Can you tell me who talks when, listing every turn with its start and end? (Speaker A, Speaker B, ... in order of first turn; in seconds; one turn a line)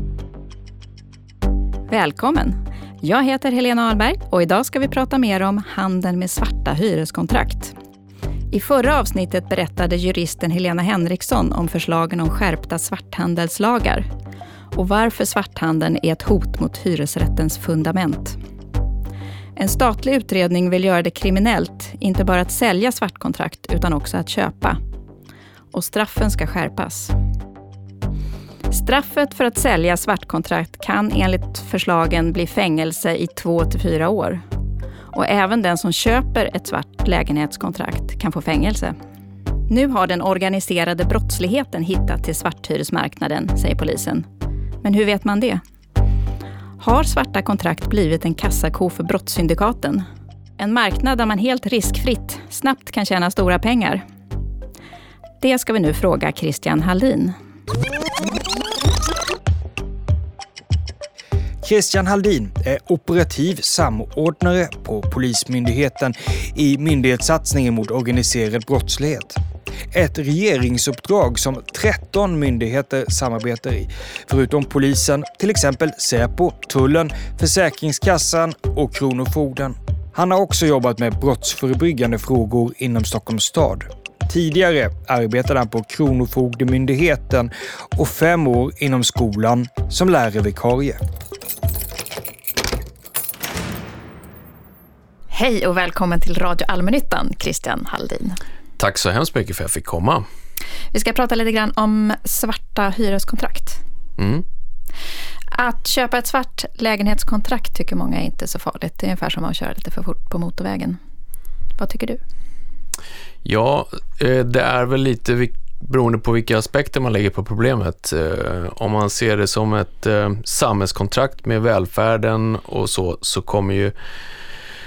Speaker A: 1.9-7.7
Speaker A: 8.5-14.0
Speaker A: 14.7-18.4
Speaker A: 19.6-24.8
Speaker A: 25.7-27.1
Speaker A: 28.7-34.4
Speaker A: 35.1-39.0
Speaker A: 39.7-44.2
Speaker A: 44.8-45.6
Speaker A: 46.8-50.0
Speaker A: 50.6-54.0
Speaker A: 55.4-57.3
Speaker B: 61.6-69.4
Speaker B: 69.9-91.0
Speaker A: 95.3-98.4
Speaker C: 98.8-100.2
Speaker A: 100.9-103.8
Speaker C: 104.2-104.4
Speaker A: 105.5-111.0
Speaker A: 111.8-112.2
Speaker C: 113.4-123.9